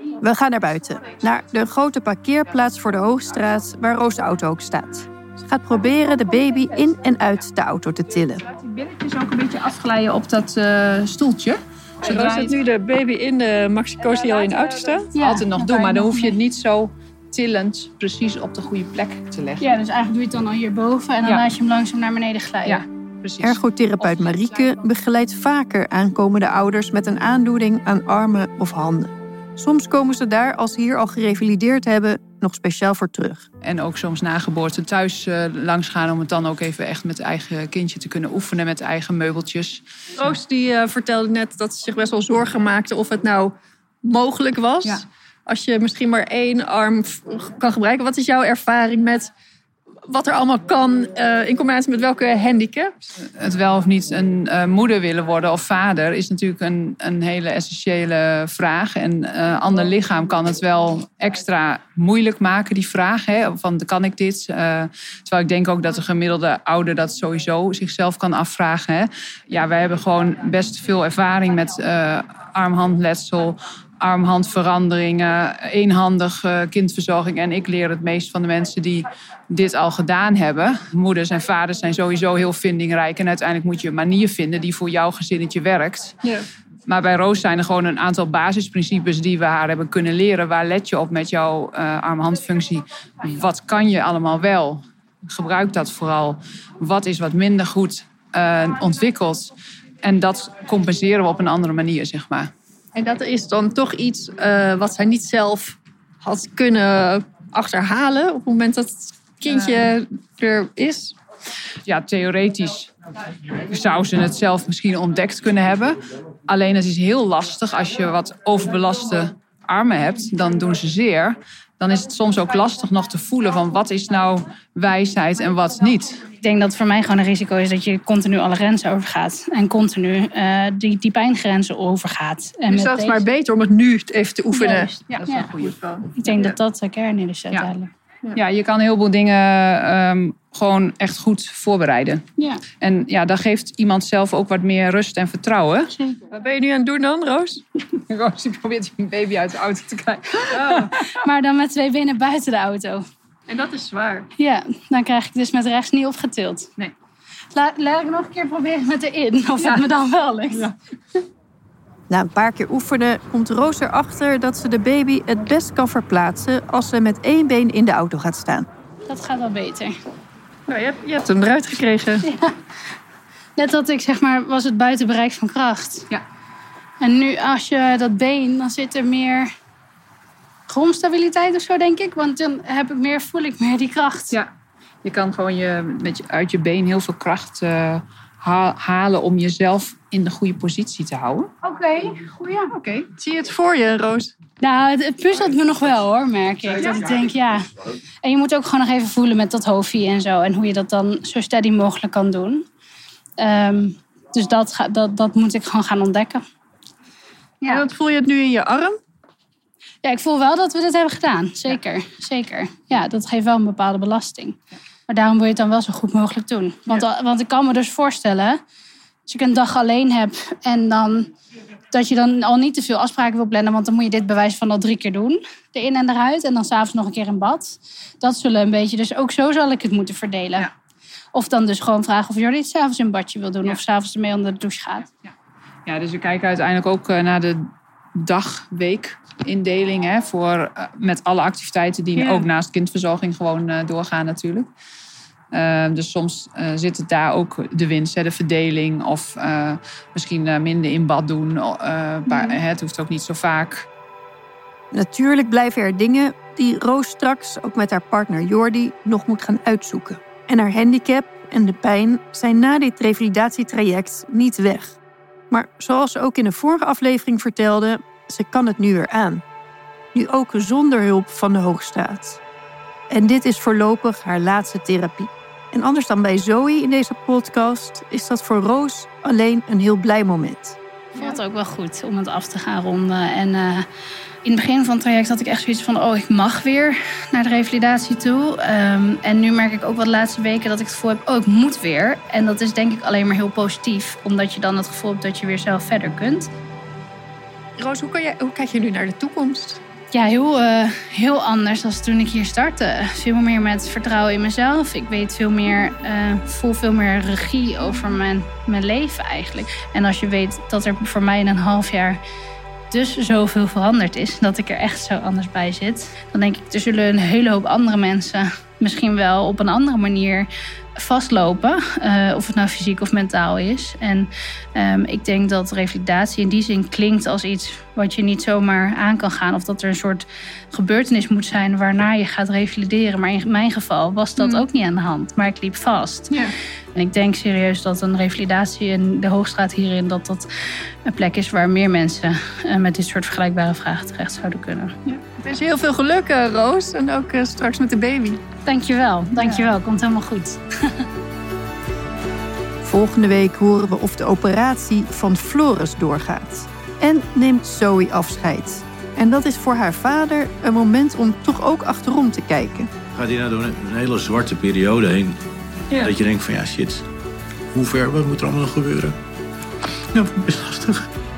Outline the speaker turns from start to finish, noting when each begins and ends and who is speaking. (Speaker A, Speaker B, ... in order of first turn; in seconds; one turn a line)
Speaker A: 0.2-8.4
Speaker B: 8.5-12.6
Speaker C: 12.0-15.1
Speaker B: 15.1-19.7
Speaker D: 15.2-16.4
Speaker D: 19.6-22.8
Speaker B: 21.2-21.5
Speaker B: 22.6-23.6
Speaker A: 23.4-33.5
Speaker B: 33.6-39.8
Speaker C: 40.2-49.3
Speaker C: 50.1-53.0
Speaker B: 53.2-86.2
Speaker B: 86.9-99.5
Speaker B: 100.0-102.5
Speaker C: 103.0-111.2
Speaker B: 109.5-109.9
Speaker B: 111.9-112.9
Speaker B: 113.7-126.2
Speaker D: 126.4-133.2
Speaker C: 132.7-136.1
Speaker D: 134.5-135.5
Speaker B: 135.1-135.8
Speaker D: 136.2-137.9
Speaker B: 138.3-142.3
Speaker B: 142.8-145.9
Speaker C: 146.3-147.6
Speaker B: 147.9-151.1
Speaker D: 150.6-153.1
Speaker C: 153.5-154.2
Speaker B: 153.6-154.1
Speaker D: 154.4-156.7
Speaker D: 157.5-160.7
Speaker A: 162.1-168.7
Speaker D: 169.1-170.0
Speaker C: 170.7-172.3
Speaker D: 172.2-172.6
Speaker D: 173.6-176.1
Speaker D: 177.0-179.5
Speaker D: 180.7-184.4
Speaker B: 185.0-191.5
Speaker D: 191.6-192.7
Speaker B: 192.7-193.1
Speaker C: 193.2-194.3
Speaker D: 194.6-197.7
Speaker D: 198.2-202.7
Speaker D: 203.4-206.4
Speaker C: 207.7-209.0
Speaker D: 210.0-218.6
Speaker D: 219.3-221.3
Speaker D: 221.9-230.7
Speaker D: 231.3-235.1
Speaker B: 235.9-244.7
Speaker B: 245.5-253.9
Speaker A: 254.9-265.0
Speaker A: 265.5-269.4
Speaker A: 270.1-272.4
Speaker A: 273.1-280.8
Speaker D: 281.1-283.9
Speaker D: 284.4-296.5
Speaker C: 297.8-299.8
Speaker D: 300.1-312.2
Speaker D: 312.9-336.4
Speaker D: 336.9-340.5
Speaker D: 341.1-344.9
Speaker C: 345.1-348.4
Speaker D: 348.7-351.0
Speaker A: 352.8-362.9
Speaker E: 363.1-365.4
Speaker E: 366.0-367.1
Speaker E: 367.7-369.2
Speaker E: 370.1-371.0